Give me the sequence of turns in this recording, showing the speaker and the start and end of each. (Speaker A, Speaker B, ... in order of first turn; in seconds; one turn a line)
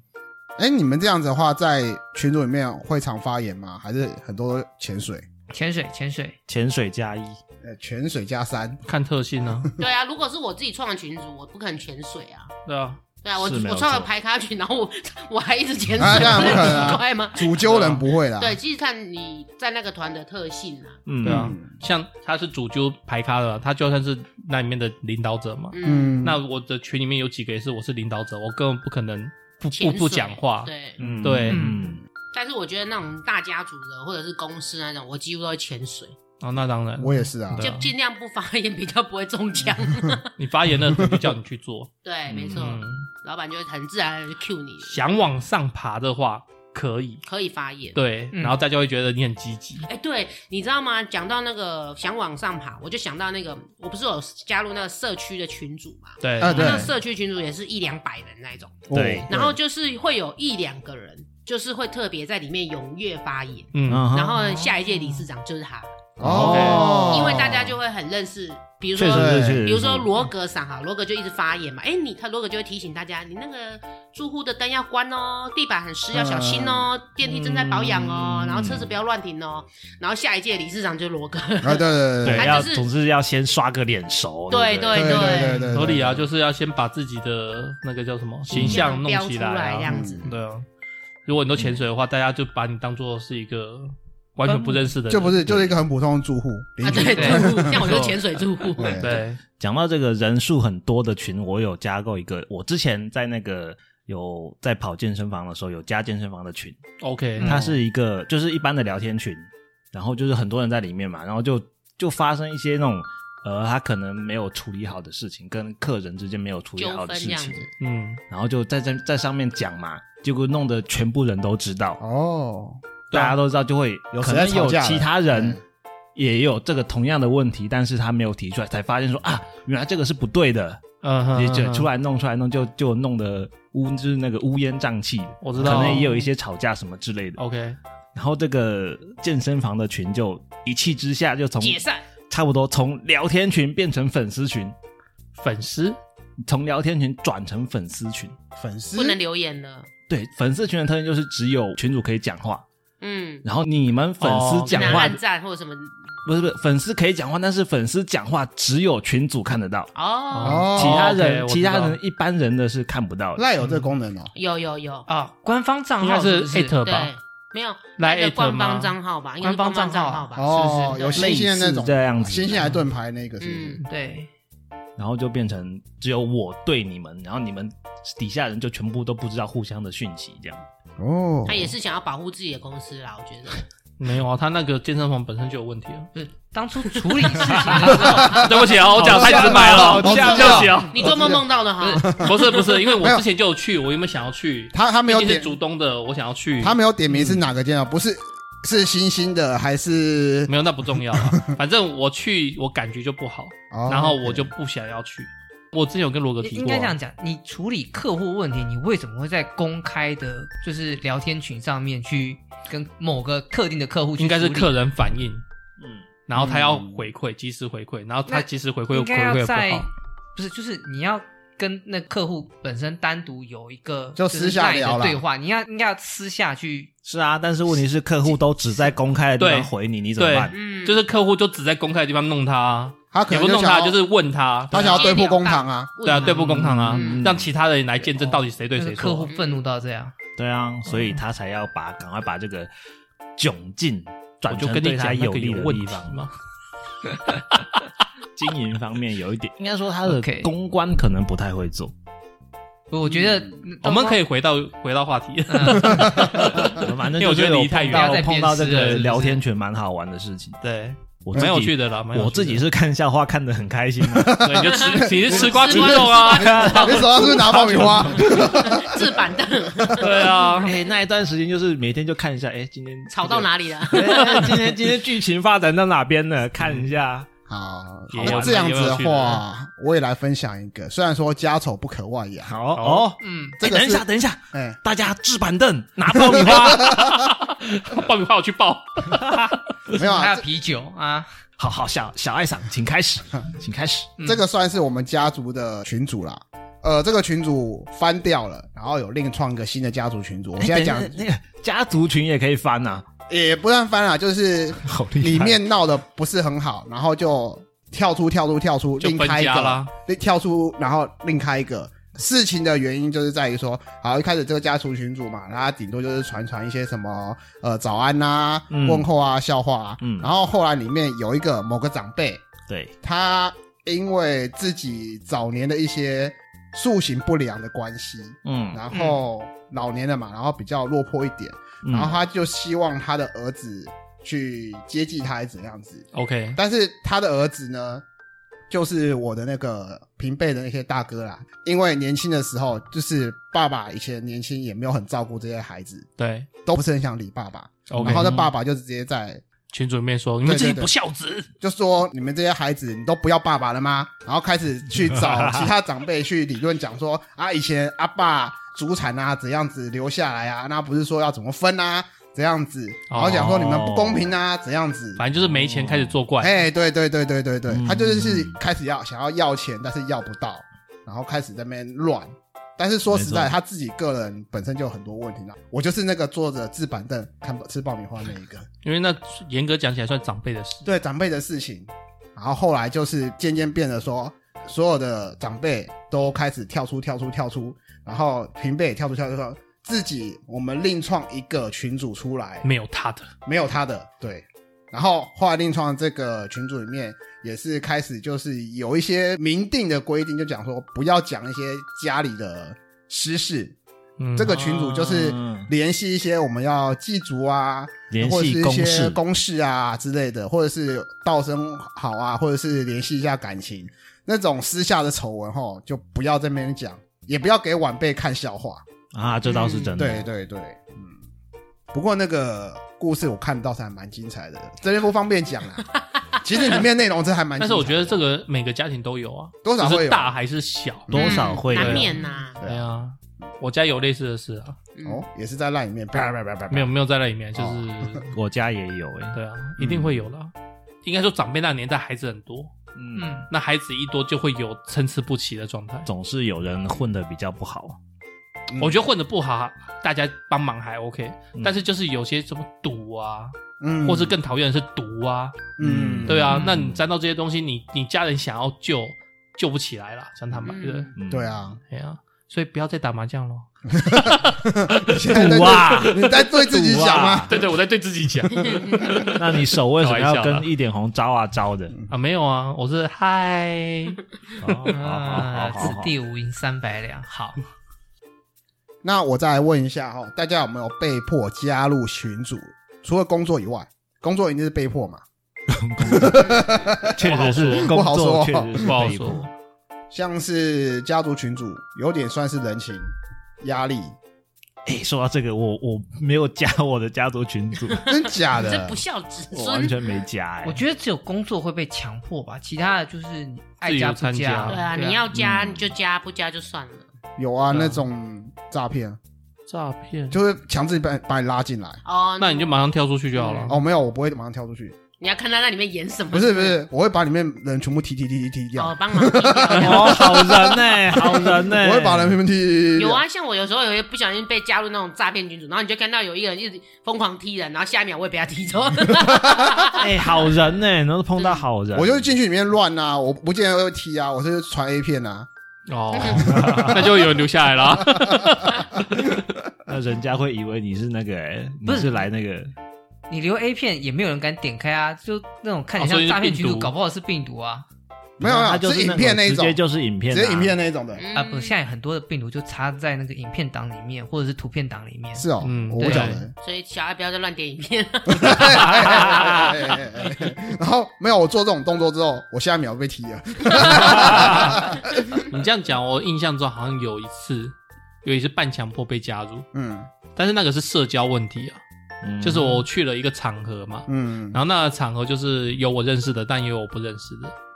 Speaker A: 0.6-5.2
Speaker B: 5.5-6.4
Speaker C: 6.5-7.4
Speaker A: 7.6-8.8
Speaker D: 8.8-9.7
Speaker E: 9.8-12.5
Speaker D: 12.7-13.0
Speaker E: 13.2-17.6
Speaker C: 13.4-14.1
Speaker A: 16.0-18.6
Speaker D: 16.3-16.7
Speaker D: 17.6-18.0
Speaker E: 18.4-21.0
Speaker C: 21.1-21.6
Speaker D: 21.2-31.7
Speaker A: 21.2-21.7
Speaker E: 25.7-26.2
Speaker A: 25.8-26.4
Speaker E: 29.7-31.0
Speaker C: 31.0-32.0
Speaker B: 31.5-31.8
Speaker E: 32.3-36.1
Speaker D: 36.4-37.9
Speaker A: 37.0-37.7
Speaker E: 37.6-40.3
Speaker D: 40.4-41.9
Speaker A: 40.9-41.3
Speaker E: 42.0-45.0
Speaker C: 42.3-42.7
Speaker D: 42.5-43.1
Speaker D: 44.8-47.2
Speaker E: 47.2-48.0
Speaker D: 47.9-49.9
Speaker B: 48.3-48.6
Speaker E: 49.9-66.0
Speaker D: 56.2-56.9
Speaker A: 56.4-56.9
Speaker C: 58.9-59.3
Speaker A: 58.9-59.6
Speaker D: 63.7-64.1
Speaker C: 63.9-64.6
Speaker C: 66.2-67.5
Speaker A: 66.2-67.7
Speaker D: 66.3-67.1
Speaker E: 66.7-82.9
Speaker C: 69.0-70.1
Speaker A: 69.1-69.7
Speaker A: 76.1-76.9
Speaker C: 77.2-78.9
Speaker A: 81.6-82.5
Speaker D: 82.2-82.5
Speaker C: 82.3-85.3
Speaker E: 84.5-85.7
Speaker A: 84.9-86.2
Speaker D: 85.7-90.6
Speaker E: 88.5-90.3
Speaker C: 88.6-88.8
Speaker A: 89.9-90.3
Speaker D: 91.3-95.4
Speaker B: 94.5-94.9
Speaker A: 95.1-98.0
Speaker E: 96.8-99.2
Speaker D: 97.0-99.4
Speaker B: 97.1-97.5
Speaker A: 98.8-99.2
Speaker C: 99.6-106.8
Speaker D: 107.0-107.5
Speaker C: 107.4-117.7
Speaker A: 107.5-107.8
Speaker E: 116.8-117.7
Speaker D: 117.8-118.2
Speaker C: 118.3-122.0
Speaker A: 122.0-122.8
Speaker D: 123.1-123.4
Speaker C: 123.1-125.6
Speaker A: 124.1-125.6
Speaker C: 126.1-130.8
Speaker D: 131.0-131.9
Speaker C: 131.3-137.4
Speaker D: 135.4-136.2
Speaker D: 137.4-137.8
Speaker C: 138.1-144.7
Speaker E: 141.6-142.1
Speaker D: 145.4-146.0
Speaker C: 146.4-148.3
Speaker A: 148.6-149.2
Speaker E: 148.9-149.9
Speaker C: 150.1-152.6
Speaker E: 153.0-153.4
Speaker C: 153.4-155.2
Speaker D: 154.2-155.2
Speaker E: 154.7-155.9
Speaker C: 156.2-159.9
Speaker E: 159.9-160.7
Speaker D: 160.3-162.0
Speaker A: 160.4-161.1
Speaker C: 160.7-163.4
Speaker A: 163.3-164.3
Speaker E: 164.3-165.1
Speaker B: 165.1-166.8
Speaker D: 166.0-167.1
Speaker E: 166.8-171.3
Speaker D: 168.0-168.9
Speaker B: 169.4-171.2
Speaker A: 170.3-173.8
Speaker C: 171.1-172.6
Speaker E: 173.4-173.8
Speaker B: 173.9-174.3
Speaker C: 175.0-180.6
Speaker A: 181.0-181.7
Speaker E: 181.4-183.6
Speaker D: 184.0-186.1
Speaker B: 186.1-188.4
Speaker D: 187.4-190.9
Speaker C: 187.5-187.8
Speaker A: 188.1-193.2
Speaker C: 188.9-190.9
Speaker E: 190.4-192.2
Speaker B: 191.8-192.1
Speaker D: 192.2-196.8
Speaker A: 194.7-195.5
Speaker A: 196.6-200.5
Speaker D: 200.5-206.9
Speaker A: 201.1-201.5
Speaker A: 203.7-204.5
Speaker B: 206.4-214.7
Speaker D: 214.2-215.4
Speaker C: 215.8-216.1
Speaker D: 216.3-219.9
Speaker A: 216.3-217.0
Speaker B: 218.3-226.9
Speaker A: 224.2-225.2
Speaker C: 227.1-230.6
Speaker D: 229.4-235.1
Speaker E: 230.5-231.0
Speaker A: 233.1-233.9
Speaker A: 234.7-236.0
Speaker E: 234.7-237.2
Speaker D: 236.0-239.3
Speaker C: 236.5-237.5
Speaker B: 238.0-240.1
Speaker E: 239.3-239.6
Speaker C: 240.4-242.7
Speaker C: 243.4-246.3
Speaker D: 244.5-246.3
Speaker C: 248.3-251.9
Speaker B: 250.1-250.5
Speaker B: 252.9-254.2
Speaker D: 253.8-259.1
Speaker B: 255.5-256.6
Speaker C: 256.6-260.6
Speaker B: 257.9-259.4
Speaker D: 260.6-262.6
Speaker C: 261.2-264.5
Speaker A: 264.0-270.2
Speaker D: 264.4-267.9
Speaker E: 264.7-270.4
Speaker C: 266.3-268.5
Speaker D: 270.0-270.7
Speaker C: 270.6-277.3
Speaker E: 273.1-274.8
Speaker A: 277.5-282.5
Speaker D: 278.1-279.4
Speaker C: 278.1-278.8
Speaker C: 282.4-287.0
Speaker D: 282.7-283.1
Speaker B: 283.2-283.6
Speaker A: 283.6-284.8
Speaker A: 286.2-287.2
Speaker D: 286.7-289.6
Speaker C: 289.1-289.5
Speaker A: 289.9-290.4
Speaker B: 290.0-291.3
Speaker C: 291.6-294.1
Speaker A: 294.2-301.2
Speaker C: 300.6-303.1
Speaker A: 303.3-322.5
Speaker C: 304.8-305.6
Speaker D: 309.0-309.9
Speaker C: 318.7-319.1
Speaker C: 320.0-320.3
Speaker C: 322.7-322.9
Speaker A: 323.0-338.0
Speaker C: 328.4-328.8
Speaker B: 328.9-329.2
Speaker C: 331.8-332.1
Speaker D: 336.1-336.6
Speaker A: 338.7-346.1
Speaker D: 346.2-346.5
Speaker A: 346.6-349.4
Speaker D: 347.9-348.3
Speaker C: 348.0-348.5
Speaker D: 349.7-351.5
Speaker A: 350.4-350.9
Speaker A: 351.6-365.2
Speaker C: 355.1-355.7
Speaker D: 363.1-363.5
Speaker C: 363.3-364.3
Speaker D: 365.2-366.6
Speaker C: 365.4-366.1
Speaker A: 366.4-378.7
Speaker C: 367.7-368.6
Speaker C: 373.1-373.5
Speaker D: 378.8-380.9
Speaker A: 380.8-392.6
Speaker D: 392.6-393.3
Speaker A: 393.4-403.8
Speaker D: 404.2-404.6
Speaker A: 404.4-418.8
Speaker C: 404.5-405.7
Speaker C: 408.1-409.2
Speaker C: 419.1-420.2
Speaker E: 419.4-420.0
Speaker A: 420.0-421.2
Speaker A: 421.9-428.2
Speaker D: 427.6-434.8
Speaker A: 429.6-430.3
Speaker C: 431.1-432.1
Speaker E: 431.1-432.6
Speaker A: 432.6-432.9
Speaker E: 434.9-435.2
Speaker A: 435.0-436.9
Speaker D: 436.7-438.2
Speaker A: 437.6-438.1
Speaker C: 438.3-439.4
Speaker D: 439.3-440.5
Speaker A: 439.8-440.2
Speaker D: 441.0-442.7
Speaker C: 442.9-443.3
Speaker B: 443.1-443.5
Speaker D: 443.5-446.1
Speaker C: 446.1-448.0
Speaker A: 448.7-449.0
Speaker D: 448.8-455.7
Speaker A: 453.8-454.4
Speaker A: 455.8-456.6
Speaker C: 455.8-457.0
Speaker D: 456.2-461.1
Speaker E: 460.6-461.1
Speaker C: 461.1-461.5
Speaker A: 461.3-461.8
Speaker D: 461.9-464.3
Speaker A: 463.9-467.5
Speaker C: 465.3-467.6
Speaker D: 467.5-470.7
Speaker E: 468.6-469.2
Speaker C: 469.4-471.9
Speaker D: 472.1-474.9
Speaker C: 474.6-476.1
Speaker B: 474.9-477.6
Speaker A: 479.0-485.2
Speaker C: 485.7-489.5
Speaker A: 486.0-489.0
Speaker D: 487.2-487.9
Speaker D: 488.8-489.5
Speaker A: 490.1-494.1
Speaker C: 494.9-498.0
Speaker E: 497.9-500.1
Speaker A: 498.0-499.0
Speaker C: 499.5-500.8
Speaker B: 500.6-505.2
Speaker D: 503.8-504.9
Speaker E: 504.7-507.1
Speaker C: 505.3-505.9
Speaker A: 507.4-509.2
Speaker D: 507.7-508.0
Speaker D: 509.7-510.4
Speaker A: 510.3-512.0
Speaker E: 512.0-512.7
Speaker D: 512.4-513.8
Speaker E: 513.4-513.8
Speaker A: 513.7-515.0
Speaker E: 515.2-516.8
Speaker A: 516.3-523.2
Speaker E: 518.8-520.4
Speaker C: 519.7-522.4
Speaker E: 522.9-530.3
Speaker A: 529.3-529.8
Speaker C: 529.9-532.3
Speaker E: 531.4-531.6
Speaker A: 531.9-535.5
Speaker D: 535.9-539.4
Speaker A: 536.4-537.1
Speaker C: 536.4-537.0
Speaker C: 539.9-542.7
Speaker B: 541.8-542.2
Speaker B: 543.3-547.9
Speaker D: 546.0-546.9
Speaker C: 548.4-550.7
Speaker A: 548.4-549.8
Speaker A: 550.3-551.2
Speaker E: 551.1-551.8
Speaker B: 551.3-556.4
Speaker A: 555.3-556.5
Speaker D: 555.6-556.4
Speaker E: 556.6-560.0
Speaker A: 558.3-565.4
Speaker C: 564.1-564.5
Speaker D: 565.5-569.7
Speaker A: 569.7-570.1
Speaker D: 570.4-571.8
Speaker C: 572.2-572.8
Speaker D: 572.4-577.5
Speaker A: 574.1-574.6